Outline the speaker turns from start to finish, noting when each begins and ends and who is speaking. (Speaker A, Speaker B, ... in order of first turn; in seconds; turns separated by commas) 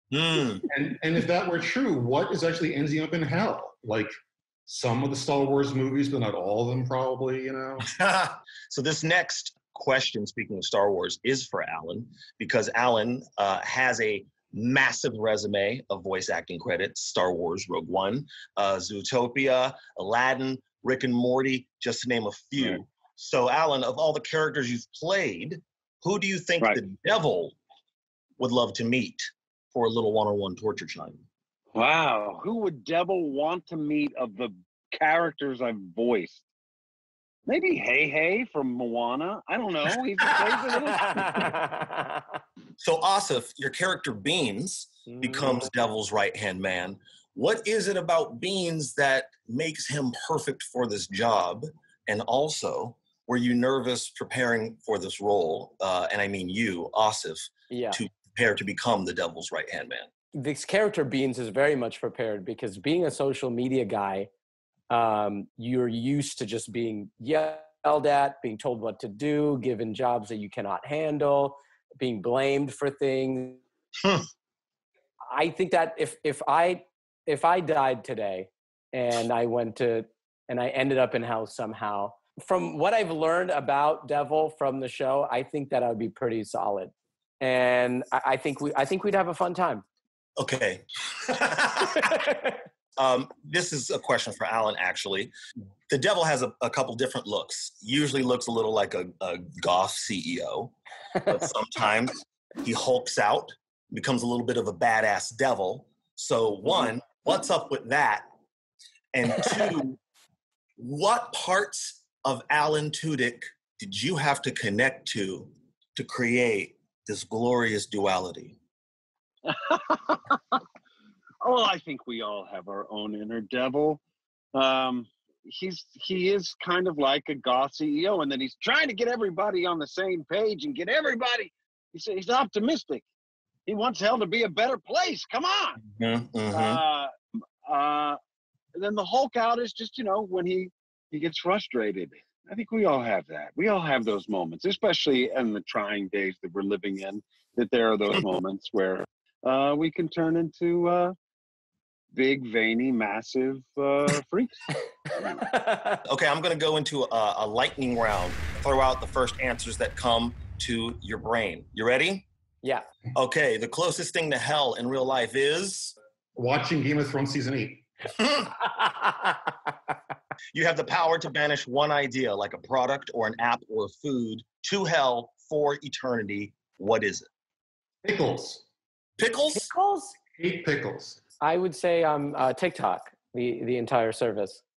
Speaker A: 0.1-0.6, Speaker B: 0.7-4.1, Speaker B: 4.7-7.8, Speaker A: 7.9-27.6, Speaker A: 28.4-31.2, Speaker C: 31.7-36.4, Speaker C: 37.5-41.5, Speaker A: 40.3-40.6, Speaker D: 40.7-42.4, Speaker A: 42.8-60.1, Speaker D: 45.1-45.7, Speaker D: 57.7-58.0, Speaker D: 60.3-64.3, Speaker D: 64.9-73.6, Speaker D: 75.3-89.8, Speaker A: 90.4-92.0, Speaker D: 92.0-92.6, Speaker A: 93.0-95.3, Speaker A: 95.9-100.7, Speaker A: 101.2-108.3, Speaker A: 109.1-110.0, Speaker A: 110.8-118.6, Speaker C: 119.5-120.6, Speaker C: 121.4-124.0, Speaker C: 124.5-133.0, Speaker C: 133.7-135.8, Speaker A: 135.8-136.8, Speaker C: 136.5-137.1, Speaker C: 137.6-138.2, Speaker C: 138.7-151.1, Speaker C: 152.1-154.5, Speaker D: 155.3-156.0, Speaker A: 156.1-162.2, Speaker A: 163.2-165.9, Speaker B: 166.3-167.9, Speaker A: 168.2-168.5, Speaker D: 168.6-169.5, Speaker A: 170.5-177.3, Speaker B: 178.0-178.6, Speaker A: 179.2-179.7, Speaker D: 179.6-180.1, Speaker B: 180.3-181.2, Speaker D: 181.4-184.6